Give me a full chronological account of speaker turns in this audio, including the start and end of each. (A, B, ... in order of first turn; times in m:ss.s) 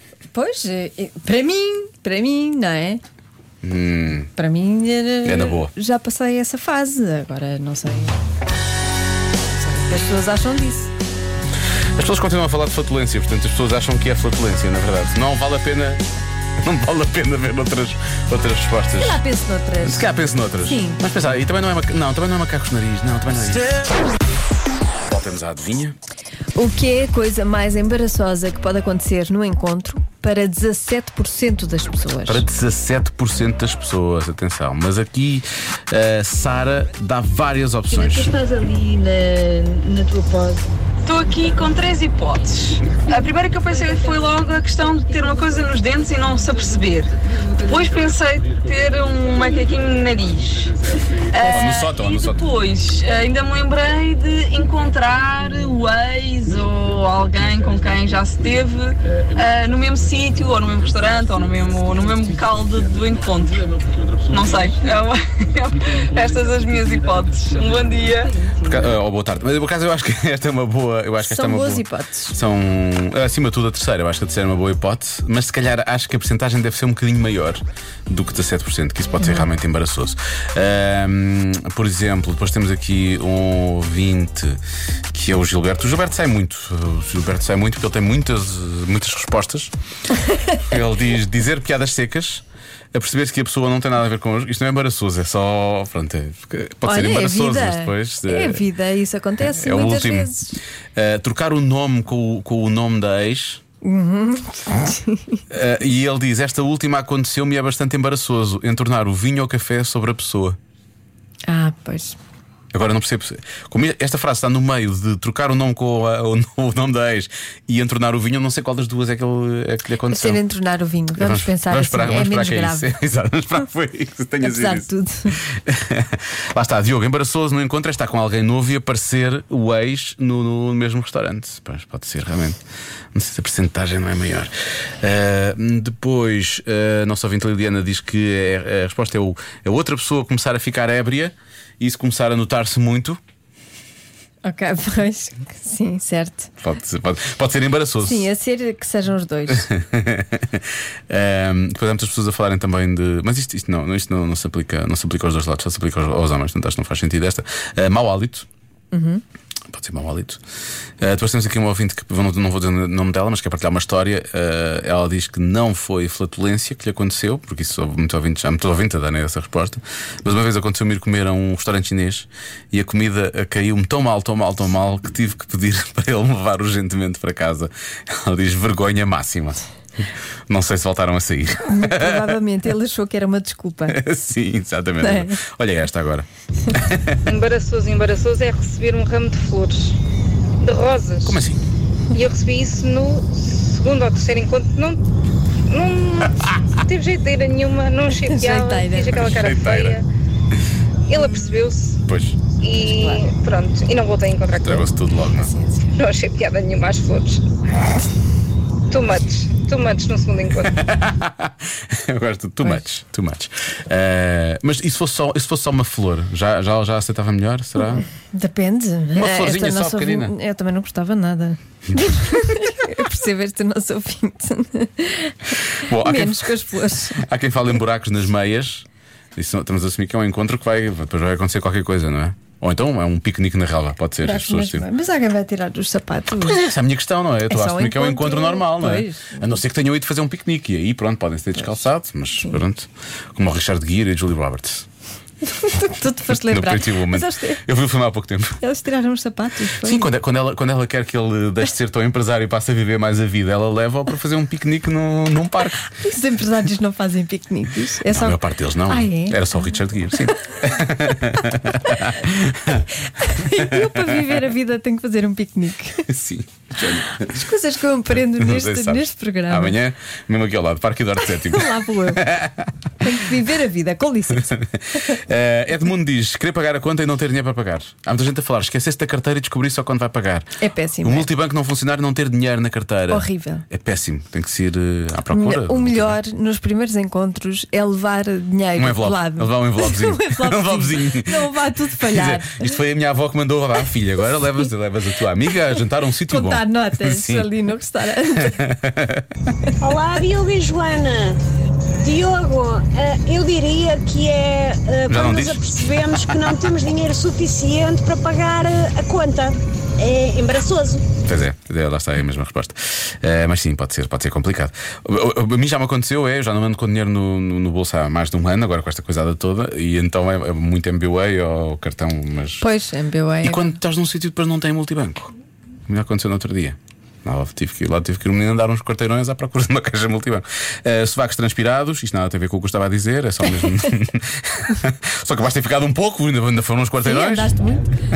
0:00.3-0:03.0 A
0:03.6-0:04.3 B
0:04.4-0:08.2 A
0:05.2-0:05.7 B
0:09.5-0:10.9 A
0:12.0-0:16.1 B
0:16.6-0:19.2 B
0:19.0-0:21.0 A
0:19.8-0:23.9 B
0:25.1-0:26.0 B
0:26.6-0:32.4 A
0:32.3-0:38.3 B
0:38.0-0:40.6 A
0:41.0-1:03.7 C
0:51.4-0:52.4 B
1:04.3-1:08.3 C
1:08.6-1:24.6 B
1:11.2-1:12.4 A
1:19.2-1:19.5 A
1:25.1-1:29.7 B
1:30.2-1:30.6 A
1:30.6-1:38.6 B
1:36.8-1:40.6 A
1:39.5-1:40.3 B
1:41.0-1:43.6 B
1:43.8-1:45.4 A
1:45.5-1:50.6 B
1:51.5-1:52.2 A
1:52.7-2:00.4 B
2:00.1-2:02.9 A
2:01.2-2:12.6 B
2:04.4-2:05.4 A
2:13.1-2:23.2 B
2:24.4-2:26.5 A
2:26.6-2:28.3 B
2:28.0-2:29.7 A
2:29.5-2:38.5 B
2:38.9-2:39.2 A
2:39.7-2:40.4 B
2:41.0-2:59.6 B
3:00.5-3:02.4 B
3:01.7-3:04.0 A
3:03.9-3:07.2 B
3:05.0-3:05.4 A
3:07.3-3:10.0 D
3:10.6-3:11.4 D
3:11.2-3:11.6 B
3:12.1-3:15.0 D
3:15.7-3:20.1 D
3:18.1-3:19.3 A
3:19.1-3:20.0 B
3:21.1-3:22.0 D
3:21.2-3:21.5 A
3:22.0-3:22.4 B
3:22.6-3:24.9 D
3:22.7-3:23.3 A
3:24.6-3:25.5 B
3:25.4-3:25.9 A
3:26.0-3:27.4 D
3:28.9-3:30.8 D
3:30.7-3:38.1 B
3:38.3-3:47.2 A
3:39.2-3:40.3 B
3:45.8-3:46.5 B
3:47.2-3:54.9 B
3:54.2-3:56.6 A
3:56.4-4:04.9 B
3:57.5-3:59.6 A
4:05.5-4:07.6 A
4:06.3-4:08.6 B
4:08.6-4:10.1 A
4:09.8-4:15.9 B
4:15.9-4:19.5 A
4:18.0-4:24.4 B
4:23.1-4:26.1 A
4:26.1-4:27.4 B
4:27.1-4:29.8 A
4:28.1-4:32.7 B
4:31.3-4:32.3 A
4:33.0-4:35.2 A
4:34.4-4:40.5 B
4:40.6-4:41.3 A
4:41.0-4:46.2 B
4:43.1-4:43.6 A
4:45.3-4:52.8 A
4:48.8-4:57.5 B
4:56.3-4:58.6 A
4:58.4-4:59.3 B
4:59.8-5:01.4 E
5:02.0-5:11.1 E
5:05.1-5:05.8 B
5:11.2-5:22.7 B
5:22.6-5:23.8 A
5:23.4-5:25.3 B
5:25.9-5:37.6 B
5:37.0-5:37.8 A